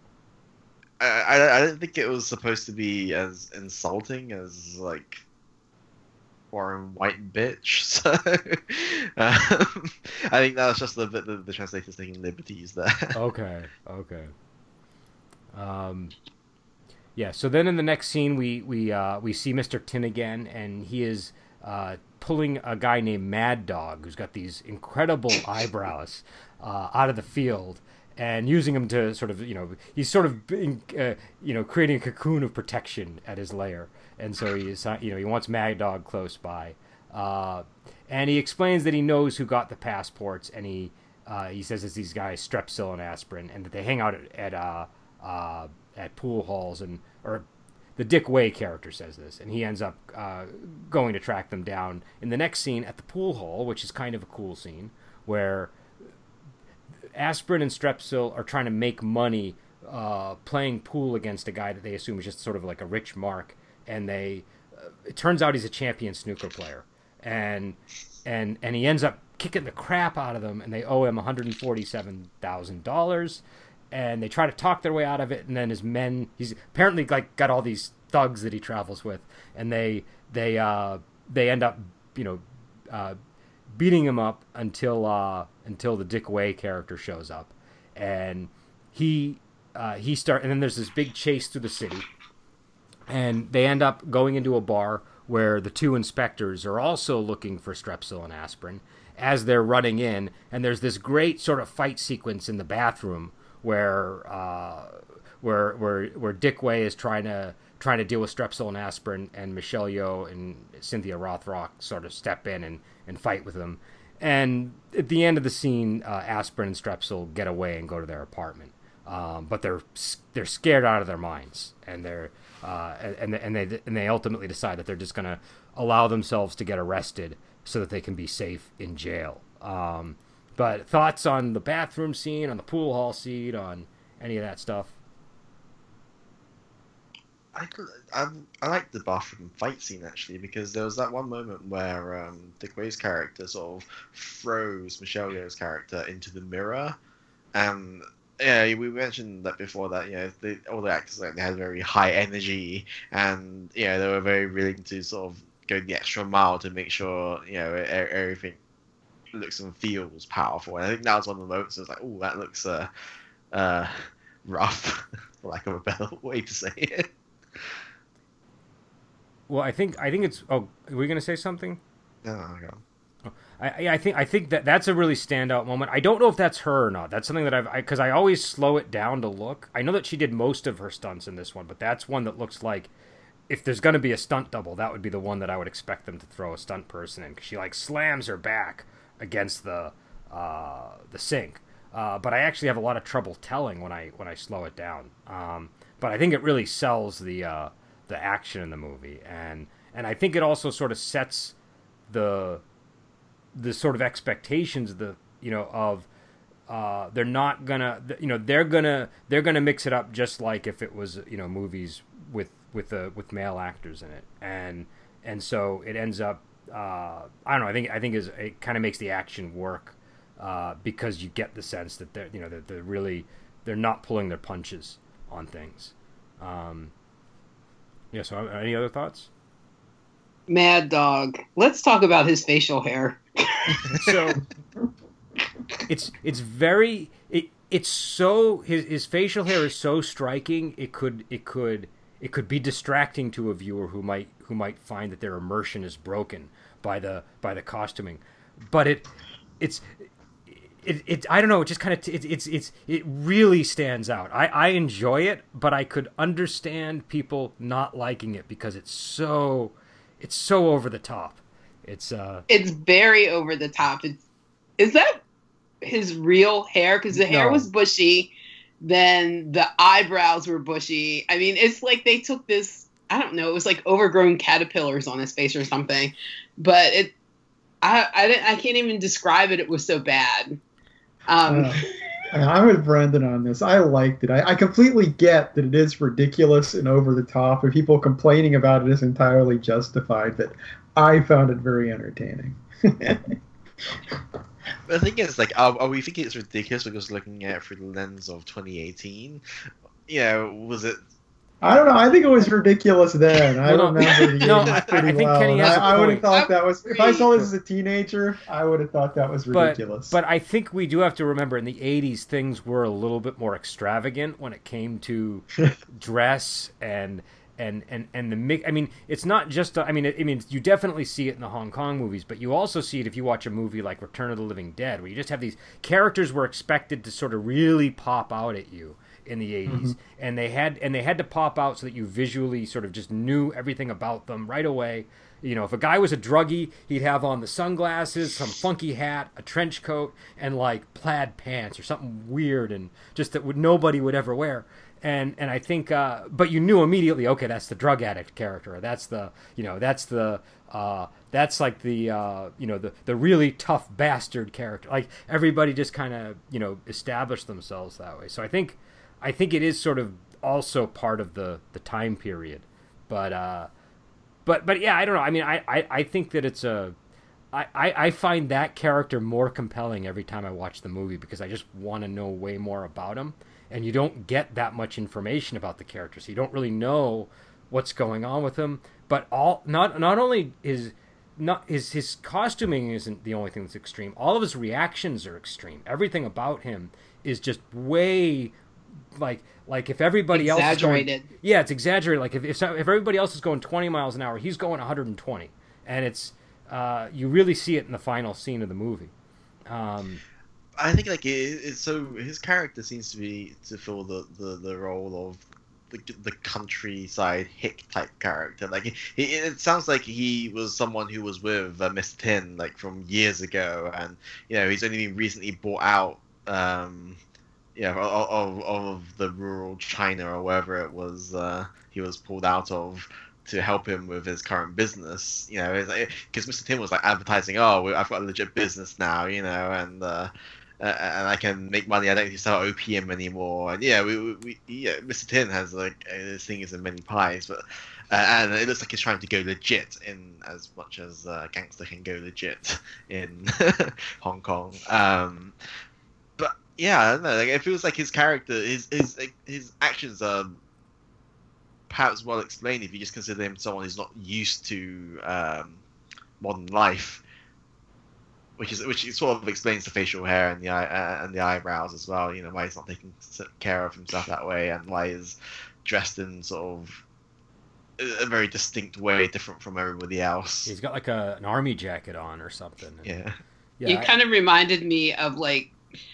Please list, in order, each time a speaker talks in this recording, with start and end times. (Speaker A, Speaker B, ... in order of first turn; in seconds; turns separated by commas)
Speaker A: 1.0-5.2, Speaker A: 6.5-13.2, Speaker B: 13.1-14.3, Speaker B: 15.5-16.1, Speaker B: 17.2-47.5, Speaker B: 48.0-55.7, Speaker B: 57.1-83.2, Speaker B: 83.7-92.1, Speaker B: 93.1-134.9, Speaker A: 137.5-147.0, Speaker A: 147.6-158.6, Speaker A: 159.3-162.9, Speaker A: 163.5-167.8, Speaker B: 169.5-171.8, Speaker A: 172.2-172.8, Speaker B: 173.3-182.9, Speaker B: 183.5-201.6, Speaker B: 202.1-202.6, Speaker B: 203.6-206.1, Speaker B: 206.7-226.9, Speaker B: 228.1-229.3, Speaker C: 230.5-234.1, Speaker B: 234.0-234.4, Speaker B: 235.9-249.1, Speaker B: 250.5-262.5, Speaker C: 262.5-264.2, Speaker C: 264.8-265.2, Speaker C: 265.8-277.1, Speaker B: 267.2-267.6, Speaker C: 277.8-280.6, Speaker C: 281.3-281.9, Speaker D: 281.5-293.4, Speaker A: 294.9-299.4, Speaker A: 300.1-301.0, Speaker D: 301.6-310.2, Speaker B: 303.6-306.3, Speaker C: 304.2-304.6, Speaker C: 306.3-307.4, Speaker B: 309.5-363.7, Speaker D: 329.7-330.0, Speaker B: 364.5-366.9, Speaker B: 367.5-388.6, Speaker B: 389.1-399.1, Speaker C: 390.3-391.3, Speaker B: 399.7-400.2, Speaker A: 400.8-417.2, Speaker A: 417.8-445.6, Speaker A: 446.4-450.6, Speaker A: 451.9-455.8, Speaker A: 456.4-457.2, Speaker A: 458.6-467.0, Speaker A: 468.0-470.7, Speaker B: 470.7-473.1, Speaker A: 473.1-473.4, Speaker B: 473.8-474.1, Speaker C: 473.9-475.7